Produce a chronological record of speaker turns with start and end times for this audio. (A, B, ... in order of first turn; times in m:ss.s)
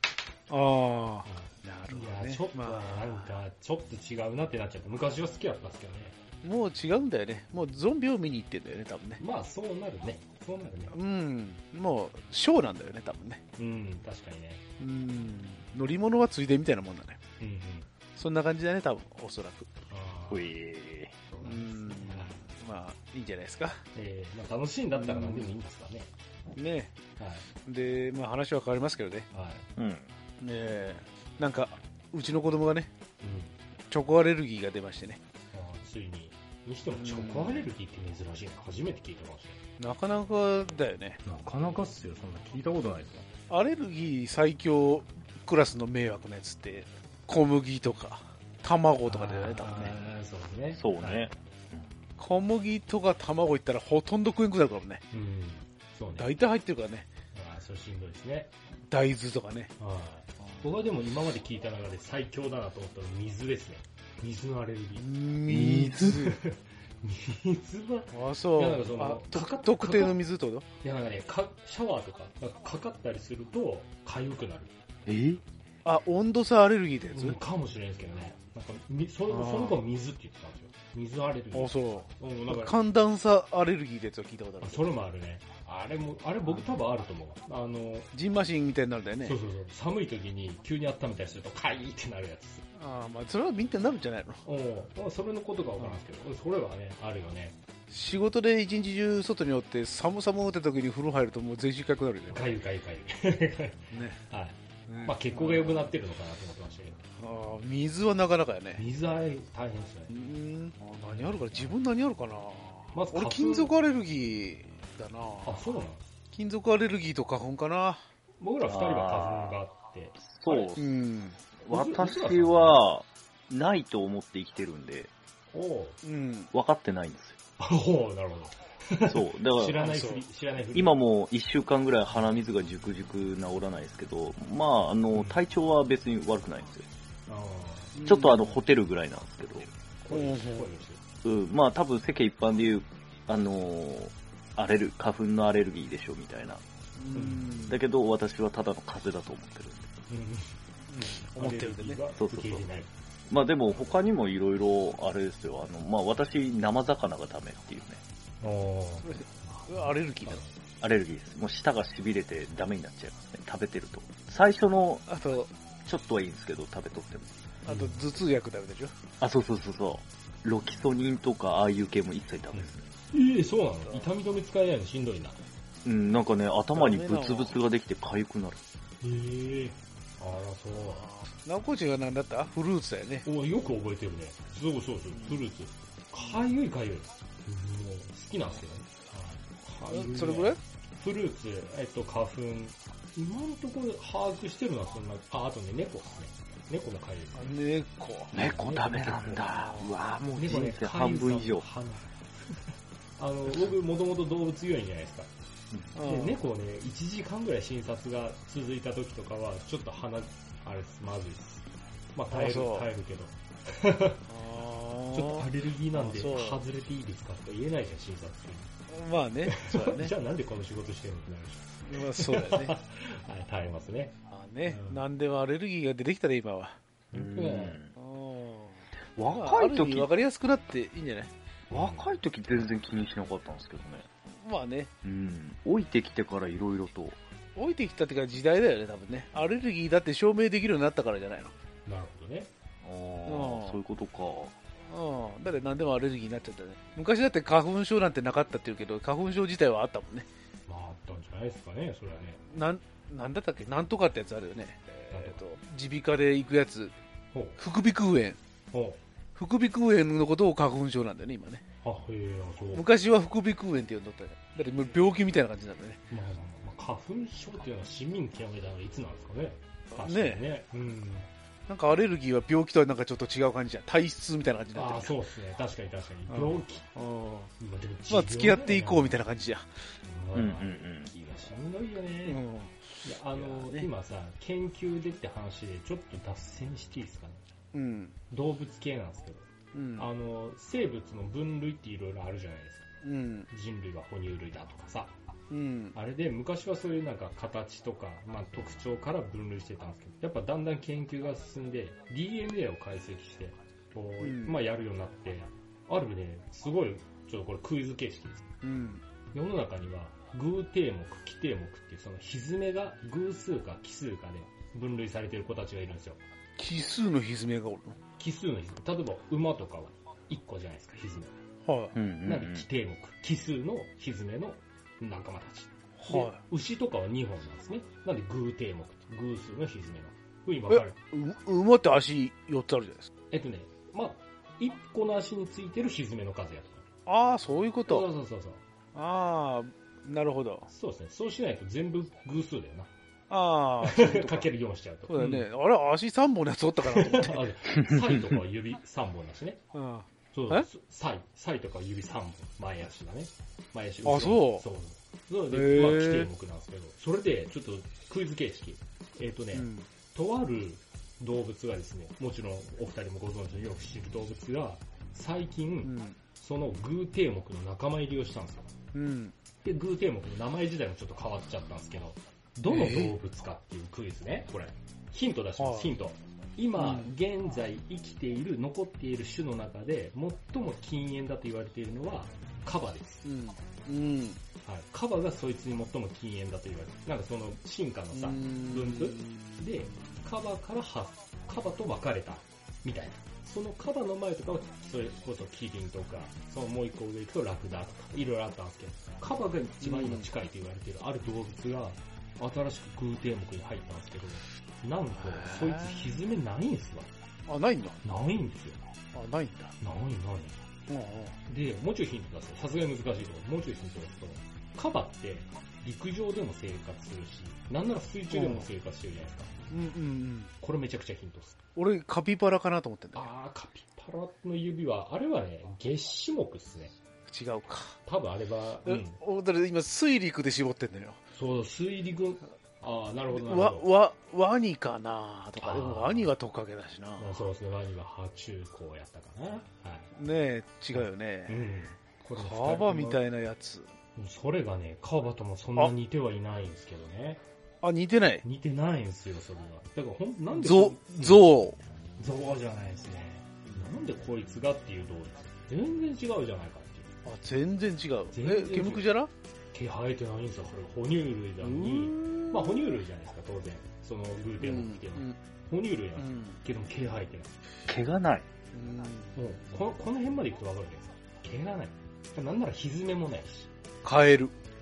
0:00.5-0:03.4 A
0:01.2-0:06.2 B
0:06.4-0:09.2 A
0:09.2-0:11.0 B
0:10.9-0:13.4 A
0:13.6-0:14.6 B
0:14.8-0:17.2 A
0:17.4-0:17.9 B
0:18.1-0:19.7 A
0:19.9-0:20.5 B
0:20.3-0:21.1 C
0:21.3-0:22.4 B
0:21.4-0:23.8 A
0:23.9-0:26.1 B
0:24.9-0:25.5 A
0:26.5-0:26.9 A
0:27.2-0:27.5 B
0:27.6-0:29.3 A
0:29.3-0:29.6 B
0:29.8-0:30.0 C
0:30.4-0:32.9 A
0:33.2-0:33.6 B
0:33.9-0:35.2 A
0:35.5-0:39.6 B
0:36.9-0:37.7 A
0:39.8-0:41.2 A
0:41.2-0:43.3 B
0:43.5-0:50.0 A
0:49.0-0:51.3 B
0:50.7-0:51.8 C
0:52.2-0:55.0 A
0:55.1-0:56.3 B
0:56.1-0:57.1 A
0:57.3-0:58.5 B
0:58.9-0:59.7 A
0:59.8-1:05.1 B
1:05.0-1:06.4 A
1:05.5-1:06.3 C
1:06.2-1:10.2 B
1:08.1-1:10.6 A
1:10.8-1:14.7 B
1:15.0-1:15.4 C
1:15.8-1:17.4 A
1:17.1-1:22.8 B
1:19.3-1:19.8 A
1:21.5-1:24.9 A
1:24.6-1:28.1 B
1:28.1-1:29.4 A
1:29.2-1:32.6 B
1:32.7-1:34.4 A
1:34.4-1:37.6 B
1:37.9-1:42.5 A
1:42.3-1:47.0 B
1:43.9-1:44.2 A
1:44.9-1:45.9 A
1:47.2-1:48.8 A
1:48.8-1:50.1 B
1:50.1-1:55.6 A
1:51.1-1:51.7 B
1:52.9-1:53.7 B
1:55.4-1:56.0 B
1:56.3-1:58.0 A
1:58.4-2:00.7 B
1:58.6-1:59.6 C
2:00.2-2:00.8 C
2:00.8-2:01.4 A
2:01.6-2:05.1 C
2:01.7-2:02.8 B
2:05.5-2:06.0 B
2:06.0-2:06.5 A
2:06.5-2:07.4 C
2:07.6-2:11.0 B
2:09.1-2:09.9 C
2:09.8-2:10.2 A
2:10.7-2:16.8 C
2:17.3-2:18.0 B
2:18.0-2:18.5 A
2:18.0-2:19.7 C
2:20.0-2:21.0 B
2:20.1-2:20.6 A
2:21.2-2:26.6 C
2:27.0-2:27.8 A
2:27.1-2:27.6 B
2:27.6-2:29.9 C
2:30.1-2:30.5 B
2:30.9-2:32.0 A
2:31.2-2:32.9 B
2:32.2-2:32.7 C
2:33.3-2:38.0 C
2:38.4-2:40.5 B
2:39.0-2:40.4 A
2:40.8-2:45.1 C
2:45.1-2:45.5 A
2:45.8-2:47.4 C
2:47.6-2:48.9 A
2:47.6-2:48.0 B
2:49.2-2:52.8 C
2:52.5-2:55.4 B
2:55.8-2:58.6 C
2:56.7-2:57.6 A
2:59.0-3:01.1 B
3:00.7-3:03.2 A
3:03.2-3:17.5 B
3:09.9-3:10.6 A
3:17.3-3:18.4 A
3:18.3-3:21.6 C
3:18.3-3:19.8 B
3:19.5-3:19.9 A
3:20.3-3:22.6 B
3:23.2-3:25.3 B
3:25.9-3:26.4 A
3:26.0-3:34.2 B
3:32.3-3:32.9 A
3:34.3-3:36.6 A
3:35.1-3:38.7 B
3:38.9-3:40.1 A
3:39.5-3:45.0 B
3:41.8-3:42.7 A
3:44.3-3:46.8 A
3:47.1-3:47.8 B
3:47.1-3:47.9 C
3:48.0-3:51.3 A
3:49.1-3:50.1 C
3:51.7-3:52.2 B
3:51.7-3:54.1 C
3:54.3-3:54.9 A
3:55.0-3:57.2 C
3:57.6-4:01.5 A
4:01.8-4:02.5 B
4:02.8-4:04.5 C
4:03.2-4:03.8 A
4:04.8-4:10.3 A
4:10.7-4:12.4 B
4:12.5-4:16.9 A
4:15.1-4:15.4 B
4:17.3-4:17.6 B
4:17.6-4:18.4 A
4:18.7-4:19.0 B
4:19.3-4:21.6 A
4:21.8-4:22.8 B
4:22.7-4:26.0 A
4:26.1-4:31.3 B
4:29.9-4:30.5 A
4:31.7-4:35.2 A
4:34.7-4:36.9 B
4:36.3-4:37.5 A
4:37.6-4:39.2 B
4:38.1-4:39.7 A
4:40.0-4:42.4 B
4:40.3-4:41.1 C
4:42.2-4:42.8 A
4:43.0-4:47.4 B
4:43.3-4:43.9 A
4:47.7-4:48.2 A
4:48.3-4:49.4 B
4:49.7-4:50.1 A
4:50.0-4:52.9 B
4:53.0-4:53.5 A
4:53.5-4:55.1 B
4:55.5-4:56.0 A
4:55.9-5:08.4 B
5:04.2-5:04.6 A
5:08.6-5:09.0 A
5:09.3-5:16.2 B
5:16.6-5:18.0 A
5:18.2-5:21.3 B
5:21.6-5:22.0 A
5:21.9-5:22.7 C
5:22.2-5:31.0 B
5:26.0-5:26.4 A
5:30.7-5:33.1 A
5:33.3-5:36.8 B
5:37.0-5:38.1 A
5:37.9-5:38.6 B
5:38.9-5:40.7 A
5:40.7-5:42.9 B
5:43.3-5:44.5 A
5:43.8-5:45.5 B
5:45.1-5:47.5 A
5:46.8-5:49.6 B
5:49.7-5:50.7 A
5:50.3-6:08.7 B
5:54.0-5:54.6 A
5:55.5-5:56.3 A
5:59.5-5:59.9 A
6:05.8-6:06.2 A
6:08.9-6:09.3 A
6:09.6-6:23.2 B
6:12.7-6:13.1 A
6:15.6-6:15.9 A
6:16.8-6:17.1 A
6:23.2-6:24.4 A
6:24.6-6:47.1 B
6:28.1-6:29.7 A
6:39.8-6:40.3 A
6:45.1-6:46.1 A
6:47.5-6:48.0 A
6:48.0-6:48.8 B
6:49.1-6:49.7 A
6:49.8-6:50.6 B
6:50.9-6:51.4 A
6:51.5-6:59.5 B
6:58.3-6:58.7 A
6:59.7-7:00.5 A
7:00.6-7:01.6 B
7:01.8-7:03.3 A
7:03.1-7:06.9 B
7:07.3-7:08.0 A
7:08.0-7:09.2 B
7:08.8-7:11.2 A
7:11.3-7:13.9 B
7:13.3-7:17.4 A
7:15.6-7:16.3 B
7:17.2-7:20.1 B
7:20.1-7:21.6 A
7:21.5-7:23.2 B
7:22.4-7:23.9 A
7:24.2-7:27.4 B
7:27.8-7:28.4 A
7:28.4-7:31.6 B
7:30.5-7:31.8 A
7:32.2-7:37.1 B
7:37.2-7:39.3 A
7:38.3-7:39.1 B
7:39.7-7:47.6 B
7:41.6-7:42.8 A
7:44.6-7:45.4 A
7:46.2-7:46.6 A
7:47.9-7:48.4 C
7:48.7-7:49.4 A
7:49.3-7:53.7 B
7:54.0-7:54.5 A